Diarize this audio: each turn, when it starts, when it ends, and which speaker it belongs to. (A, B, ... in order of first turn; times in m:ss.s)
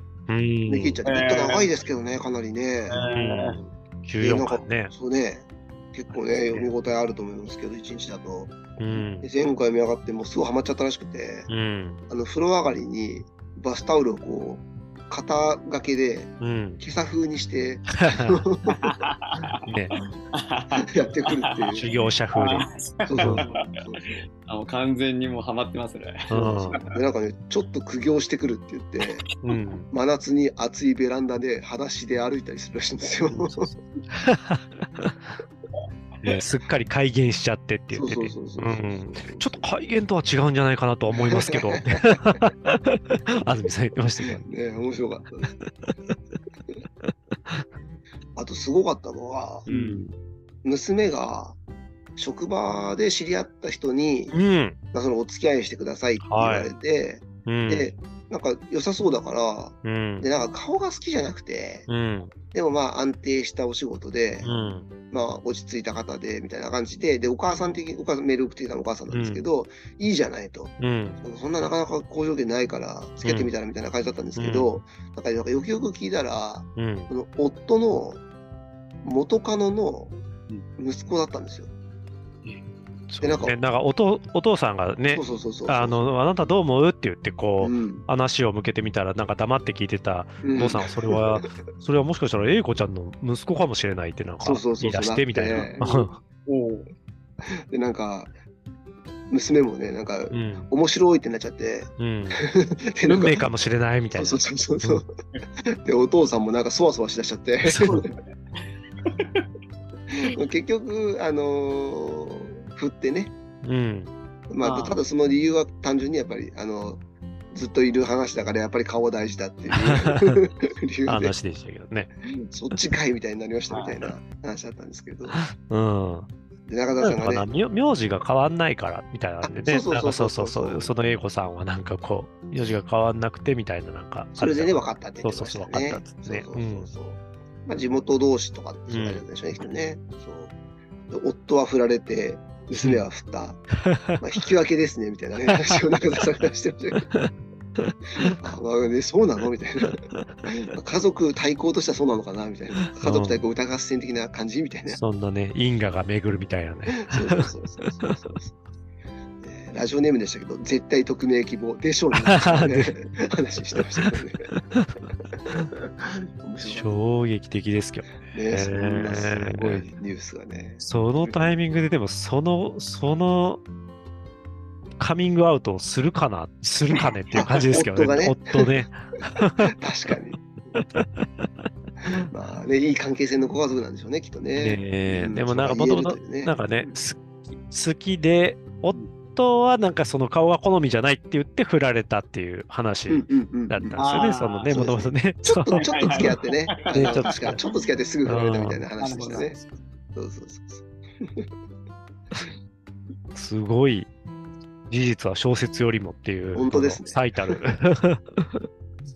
0:00.3-0:01.0 A
0:00.7-0:03.0 B
0:01.0-0:01.7 C
0:02.9-0:03.6 C
0:03.0-0:04.9 A
0:04.2-0:08.6 B
0:08.8-0:09.3 A
0:09.2-0:11.5 B
0:11.5-0:12.0 A
0:12.1-0:19.0 B
0:16.4-0:16.8 A
0:18.1-0:18.4 A
0:18.8-0:19.6 C
0:19.6-0:19.9 A
0:20.3-0:21.5 C
0:20.8-0:21.9 B
0:21.7-0:23.5 A
0:22.3-0:23.8 C
0:23.0-0:24.2 B
0:24.5-0:27.0 C
0:26.3-0:26.8 A
0:26.9-0:29.3 B
0:29.2-0:29.6 C
0:29.4-0:29.9 A
0:29.9-0:33.7 B
0:33.3-0:35.3 A
0:36.2-0:44.4 A
0:37.9-0:39.7 B
0:41.3-0:42.4 B
0:44.2-0:45.5 B
0:45.6-0:46.1 A
0:47.0-0:47.6 A
0:48.4-0:49.7 B
0:49.7-0:50.0 C
0:49.7-0:50.2 A
0:50.6-0:51.6 B
0:52.2-0:54.4 B
0:54.3-0:54.8 A
0:54.9-1:01.9 B
0:56.2-0:56.7 A
0:57.4-0:57.9 A
0:59.8-1:00.3 A
1:01.9-1:02.3 A
1:02.5-1:04.5 B
1:04.4-1:04.9 A
1:05.1-1:18.2 B
1:09.1-1:09.4 A
1:10.8-1:11.2 A
1:13.2-1:13.5 A
1:14.4-1:14.7 A
1:16.8-1:17.1 A
1:19.0-1:20.2 B
1:20.8-1:21.7 B
1:23.1-1:36.2 A
1:23.2-1:23.6 B
1:25.1-1:26.0 B
1:27.6-1:28.1 B
1:30.4-1:31.1 B
1:34.4-1:36.0 B
1:36.4-1:36.9 C
1:37.4-1:38.3 B
1:39.3-1:43.4 B
1:40.3-1:40.7 A
1:42.0-1:42.4 A
1:43.0-1:45.0 A
1:44.1-1:45.1 B
1:45.6-1:48.0 B
1:47.8-1:48.2 C
1:49.0-1:49.4 C
1:50.1-1:53.3 B
1:53.6-1:54.1 A
1:54.5-1:57.0 B
1:54.6-1:55.0 C
1:57.5-2:01.3 B
1:59.8-2:00.4 A
2:01.1-2:02.1 A
2:02.5-2:05.4 B
2:03.7-2:04.0 C
2:05.3-2:06.3 A
2:06.7-2:07.5 B
2:07.0-2:16.9 A
2:09.4-2:10.9 B
2:14.3-2:20.5 B
2:18.9-2:19.2 A
2:21.1-2:23.6 B
2:22.8-2:23.0 A
2:23.8-2:24.2 A
2:24.2-2:27.1 B
2:27.1-2:28.3 A
2:28.2-2:35.0 B
2:32.9-2:33.4 A
2:34.9-2:37.5 A
2:37.0-2:38.6 B
2:39.4-2:44.5 B
2:42.2-2:43.0 A
2:43.8-2:44.1 A
2:45.4-2:47.0 B
2:46.6-2:49.9 A
2:48.3-2:51.4 B
2:50.8-2:53.6 A
2:55.0-2:59.7 A
2:57.3-2:58.7 B
2:59.6-3:00.4 B
3:00.7-3:01.6 A
3:02.2-3:06.5 B
3:04.6-3:16.4 A
3:13.1-3:14.1 B
3:14.0-3:14.9 C
3:14.7-3:19.6 B
3:15.7-3:17.9 C
3:16.9-3:17.6 A
3:18.2-3:19.6 A
3:19.0-3:19.6 C
3:20.1-3:21.5 B
3:23.3-3:24.1 A
3:24.9-3:28.6 A
3:26.5-3:27.6 B